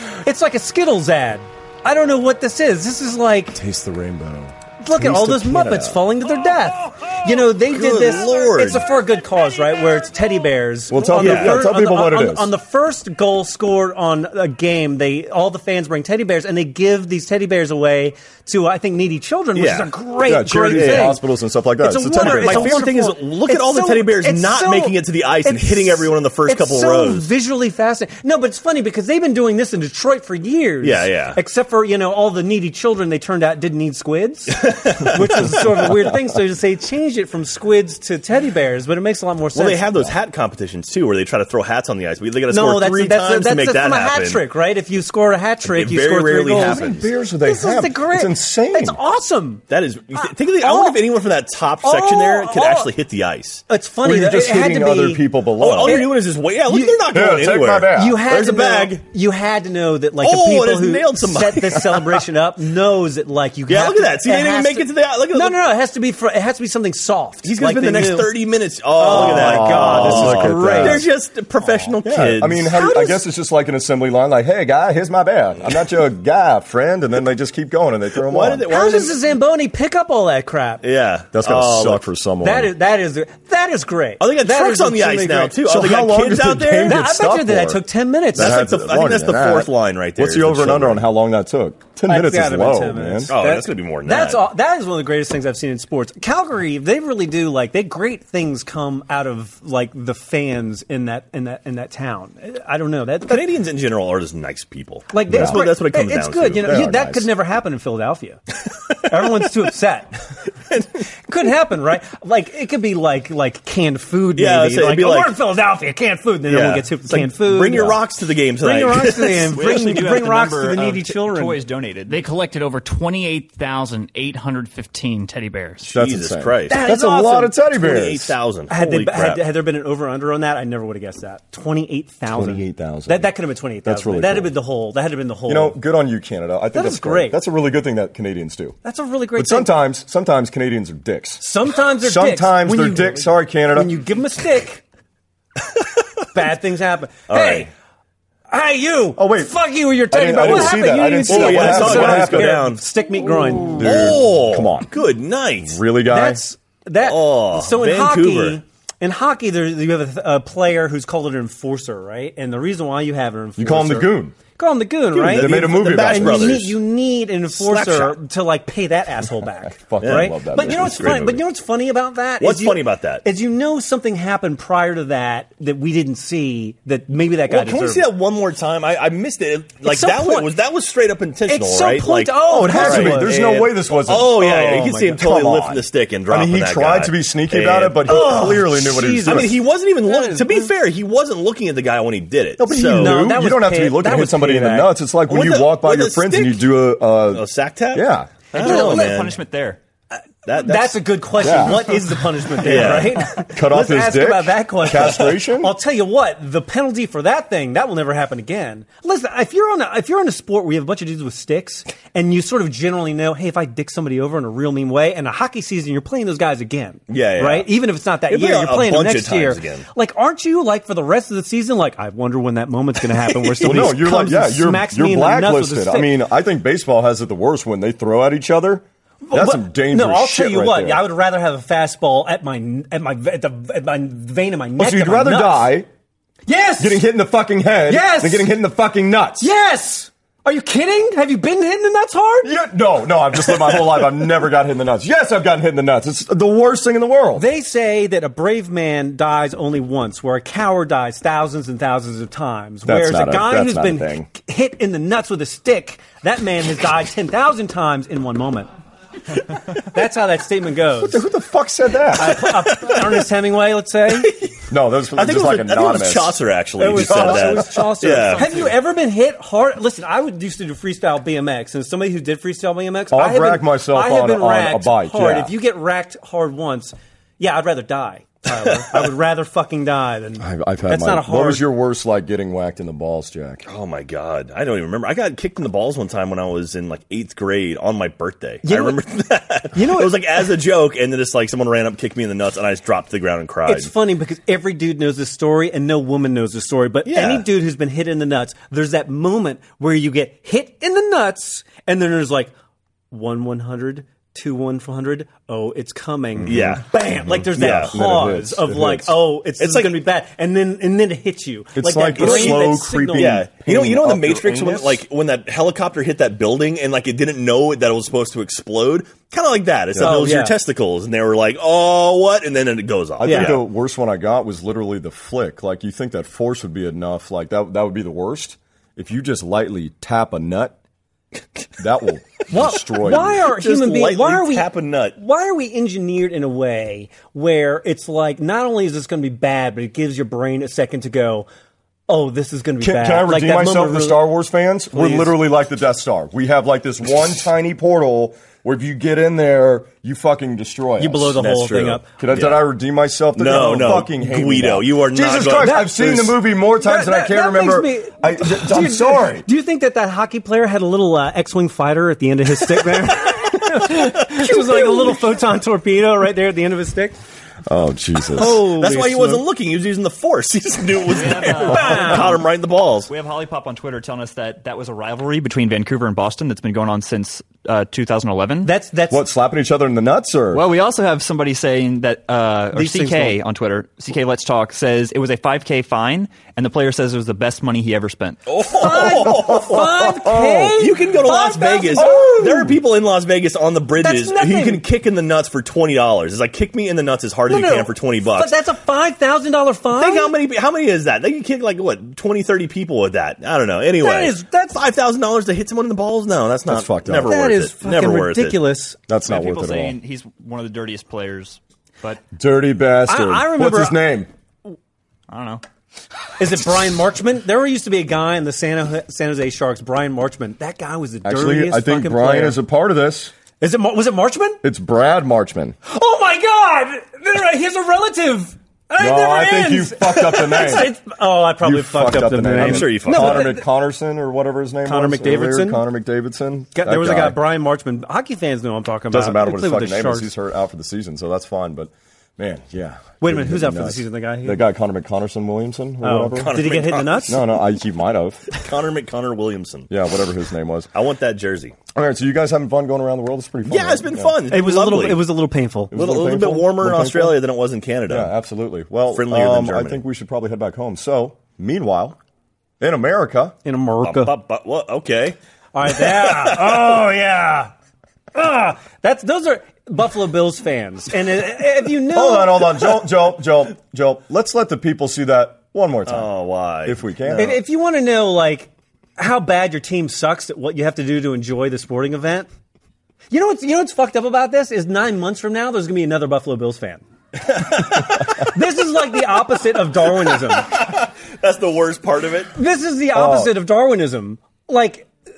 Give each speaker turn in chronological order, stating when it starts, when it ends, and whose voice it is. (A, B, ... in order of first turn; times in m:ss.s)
0:00.2-0:03.6 A
0:03.5-0:06.0 B
0:04.8-0:21.2 A
0:07.7-0:08.9 C
0:10.9-0:12.5 B
0:11.2-0:11.6 C
0:19.6-0:19.9 C
0:20.2-0:22.8 B
0:20.7-0:21.2 C
0:21.8-0:40.1 A
0:22.2-0:27.3 C
0:30.8-0:31.4 C
0:34.5-0:35.2 C
0:39.6-0:44.4 C
0:42.5-0:49.6 A
0:45.6-0:47.1 C
0:46.6-0:49.0 B
0:49.7-0:53.6 C
0:50.2-0:51.0 A
0:51.8-0:52.9 A
0:53.7-0:55.2 A
0:54.0-0:56.1 B
0:55.6-0:59.0 C
0:55.8-0:57.0 A
0:57.1-0:58.2 B
0:57.9-1:08.3 A
1:00.2-1:02.2 C
1:03.7-1:05.6 C
1:07.4-1:12.7 C
1:09.0-1:11.0 A
1:09.1-1:11.1 B
1:12.0-1:18.7 B
1:12.6-1:13.2 A
1:18.2-1:19.2 C
1:18.7-1:20.8 A
1:20.8-1:22.0 C
1:21.3-1:22.7 B
1:22.4-1:25.6 A
1:24.2-1:27.1 C
1:25.6-1:27.8 B
1:26.9-1:28.7 A
1:28.4-1:33.3 B
1:28.4-1:31.1 C
1:32.1-1:43.4 A
1:33.3-1:34.5 C
1:43.3-1:47.1 C
1:45.1-1:48.4 A
1:45.3-1:45.6 B
1:46.6-1:47.2 B
1:49.1-1:50.2 A
1:51.3-1:58.0 A
1:54.4-1:55.4 C
1:56.5-1:59.6 C
1:58.6-2:01.6 A
1:59.5-2:02.2 D
2:02.1-2:05.9 E
2:05.8-2:06.9 C
2:05.9-2:08.3 B
2:06.7-2:07.5 A
2:07.6-2:09.4 C
2:08.7-2:15.8 A
2:12.3-2:13.3 B
2:13.8-2:14.5 B
2:15.5-2:18.8 B
2:16.7-2:17.4 A
2:18.8-2:19.7 A
2:19.4-2:23.9 B
2:21.4-2:24.8 A
2:26.3-2:27.7 A
2:27.3-2:27.7 C
2:28.5-2:34.1 A
2:29.2-2:32.7 B
2:30.4-2:32.8 C
2:33.6-2:34.9 B
2:33.8-2:35.8 C
2:35.6-2:36.4 B
2:36.1-2:58.1 A
2:37.0-2:38.6 C
2:43.6-2:44.4 B
2:45.1-2:46.8 C
2:45.3-2:46.6 B
2:47.5-2:48.2 C
2:49.8-2:51.2 B
2:50.0-2:51.4 C
2:52.4-2:53.2 C
2:57.5-3:13.3 C
2:59.9-3:00.5 A
3:01.5-3:03.4 A
3:02.5-3:09.5 B
3:08.1-3:10.7 A
3:12.6-3:18.3 B
3:12.7-3:15.0 A
3:15.3-3:19.4 C
3:18.6-3:19.8 D
3:18.6-3:19.1 A
3:20.5-3:21.8 C
3:20.5-3:46.2 A
3:21.4-3:21.9 B
3:22.6-3:23.3 C
3:22.8-3:25.7 B
3:37.1-3:37.7 C
3:38.3-3:39.9 C
3:43.3-3:43.9 C
3:43.6-3:51.1 B
3:49.3-3:55.7 A
3:54.8-3:55.9 B
3:56.5-3:57.0 A
3:56.8-3:59.5 B
3:57.9-3:58.5 A
3:59.4-4:02.5 A
4:02.4-4:07.5 B
4:07.4-4:18.7 A
4:12.8-4:14.3 B
4:19.7-4:21.2 A
4:21.0-4:22.5 B
4:22.2-4:24.3 A
4:22.8-4:23.0 C
4:24.2-4:24.6 C
4:24.7-4:28.7 B
4:25.2-4:28.6 C
4:26.8-4:41.7 A
4:33.1-4:35.5 B
4:40.4-4:43.6 B
4:43.6-4:53.9 C
4:48.6-4:49.0 A
4:49.7-4:50.2 A
4:53.7-5:02.5 A
4:57.1-4:57.5 C
5:03.1-5:13.5 A
5:06.4-5:09.2 B
5:06.5-5:06.8 C
5:07.5-5:07.9 C
5:09.6-5:10.0 C
5:11.8-5:15.0 B
5:12.2-5:23.6 C
5:19.9-5:20.2 B
5:20.0-5:20.6 A
5:23.2-5:30.8 B
5:23.2-5:23.6 A
5:31.8-5:33.4 B
5:32.5-5:41.5 A
5:33.4-5:35.2 C
5:42.1-5:44.3 A
5:42.8-5:59.5 B
5:44.9-5:45.4 A
5:51.0-5:52.1 A
5:51.4-5:52.7 C
5:53.4-5:56.2 C
5:55.6-6:07.2 A
6:04.8-6:05.1 B
6:07.7-6:08.6 B
6:08.4-6:09.4 A
6:08.4-6:13.1 C
6:11.1-6:12.4 D
6:11.6-6:12.4 A
6:13.1-6:18.7 D
6:18.6-6:19.2 A
6:19.1-6:20.6 B
6:20.5-6:28.4 D
6:22.7-6:23.4 A
6:28.5-6:29.9 C
6:28.7-6:32.7 A
6:29.1-6:30.8 B
6:30.8-6:38.6 C
6:32.0-6:32.7 B
6:34.0-6:34.8 A
6:37.5-6:40.3 A
6:39.9-6:48.7 C
6:44.0-6:44.8 A
6:46.7-6:47.3 B
6:47.2-6:49.0 A
6:49.1-6:50.0 B
6:49.2-6:52.2 D
6:52.3-6:54.3 B
6:53.1-6:54.0 A
6:55.3-6:55.6 D
6:56.4-7:02.6 A
7:01.2-7:03.3 B
7:03.6-7:04.6 A
7:04.6-7:05.8 B
7:05.8-7:13.6 A
7:09.0-7:10.9 B
7:11.6-7:17.4 B
7:12.5-7:13.5 C
7:14.8-7:15.8 A
7:16.7-7:20.3 A
7:19.1-7:26.6 B
7:23.2-7:24.6 A
7:26.0-7:27.4 A
7:26.4-7:27.4 C
7:27.3-7:28.5 B
7:28.5-7:29.9 C
7:29.9-7:30.9 B
7:30.9-7:31.8 C
7:31.9-7:34.3 B
7:33.7-7:35.3 C
7:34.5-7:36.0 A
7:35.9-7:37.4 B
7:35.9-7:38.3 C
7:38.1-7:42.2 B
7:39.1-7:40.0 C
7:42.8-7:43.6 B
7:43.6-7:44.4 A
7:44.0-7:45.4 C
7:45.7-7:47.7 A
7:45.9-7:47.0 C
7:48.3-7:52.8 A
7:52.1-7:56.3 B
7:56.1-7:57.5 C
7:56.8-7:57.6 B
7:57.3-8:02.5 A
8:03.3-8:07.0 A
8:07.9-8:10.7 A
8:10.6-8:12.5 C
8:12.6-8:15.1 A
8:13.1-8:13.6 B